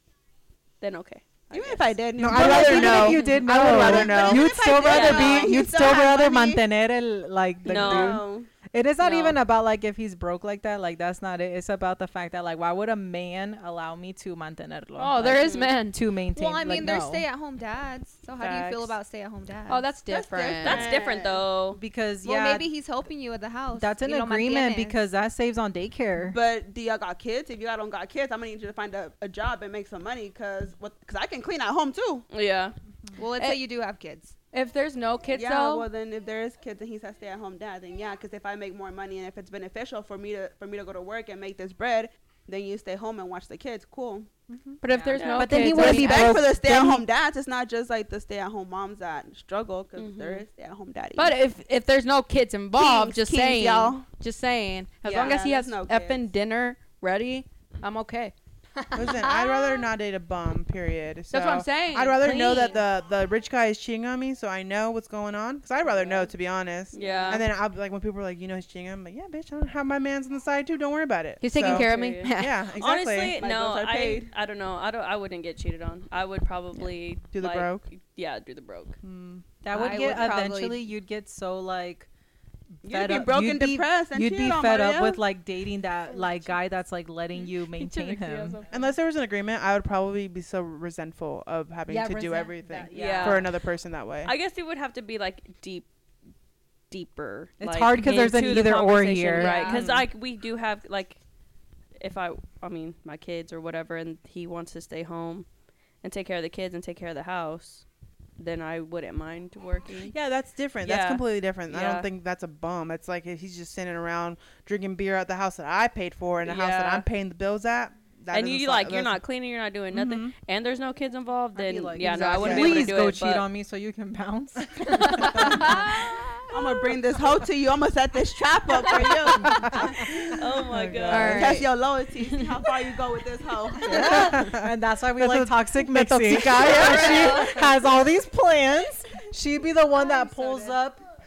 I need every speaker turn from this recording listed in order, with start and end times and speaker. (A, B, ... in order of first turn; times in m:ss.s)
0:00.8-0:02.0 A
0:01.5-0:06.6 B
0:02.2-0:04.5 C
0:02.3-0:17.3 D
0:04.8-0:05.5 A
0:07.6-0:08.2 A
0:07.7-0:08.5 B
0:09.0-0:09.4 A
0:14.9-0:16.0 E
0:15.3-0:15.7 A
0:16.3-0:19.8 F
0:18.4-0:19.0 A
0:19.7-0:20.9 E
0:20.1-0:21.5 B
0:20.6-0:21.8 A
0:21.7-0:22.7 D
0:22.2-0:25.0 F
0:23.7-0:26.4 D
0:26.3-0:32.3 B
0:32.3-0:32.8 A
0:33.2-0:34.3 F
0:34.5-0:35.9 E
0:35.3-0:44.4 B
0:44.5-0:44.8 C
0:44.8-0:46.4 E
0:44.9-0:47.0 D
0:45.1-0:45.7 A
0:45.6-0:51.4 B
0:49.9-0:50.4 A
0:51.2-0:58.3 E
0:52.7-0:54.0 B
0:55.0-0:56.3 B
0:58.9-0:59.5 E
0:58.9-1:13.4 C
1:01.3-1:02.8 E
1:05.8-1:06.3 B
1:06.9-1:07.5 A
1:06.9-1:07.4 B
1:11.4-1:12.6 E
1:11.5-1:19.0 A
1:13.4-1:14.3 B
1:17.3-1:17.8 C
1:19.0-1:19.6 C
1:19.6-1:22.1 D
1:19.7-1:20.8 F
1:19.9-1:20.2 E
1:22.8-1:28.7 D
1:22.8-1:25.2 B
1:27.7-1:28.6 E
1:28.7-1:34.3 C
1:31.9-1:33.5 D
1:32.9-1:33.5 A
1:34.2-1:35.9 A
1:36.9-1:41.2 A
1:37.6-1:39.9 D
1:38.0-1:38.5 E
1:39.3-1:40.0 F
1:42.0-1:45.4 A
1:46.0-1:47.8 A
1:48.4-1:50.1 A
1:50.0-1:59.2 C
1:50.8-1:52.1 A
1:56.4-1:57.0 A
1:58.3-2:03.5 A
1:59.9-2:00.3 C
2:01.5-2:06.0 D
2:02.0-2:02.9 E
2:02.4-2:02.7 C
2:06.5-2:10.5 B
2:09.5-2:11.6 D
2:10.2-2:11.6 A
2:11.0-2:11.7 E
2:11.3-2:14.4 B
2:13.9-2:21.0 D
2:13.9-2:17.3 C
2:16.6-2:17.6 F
2:16.8-2:17.4 B
2:19.9-2:20.8 B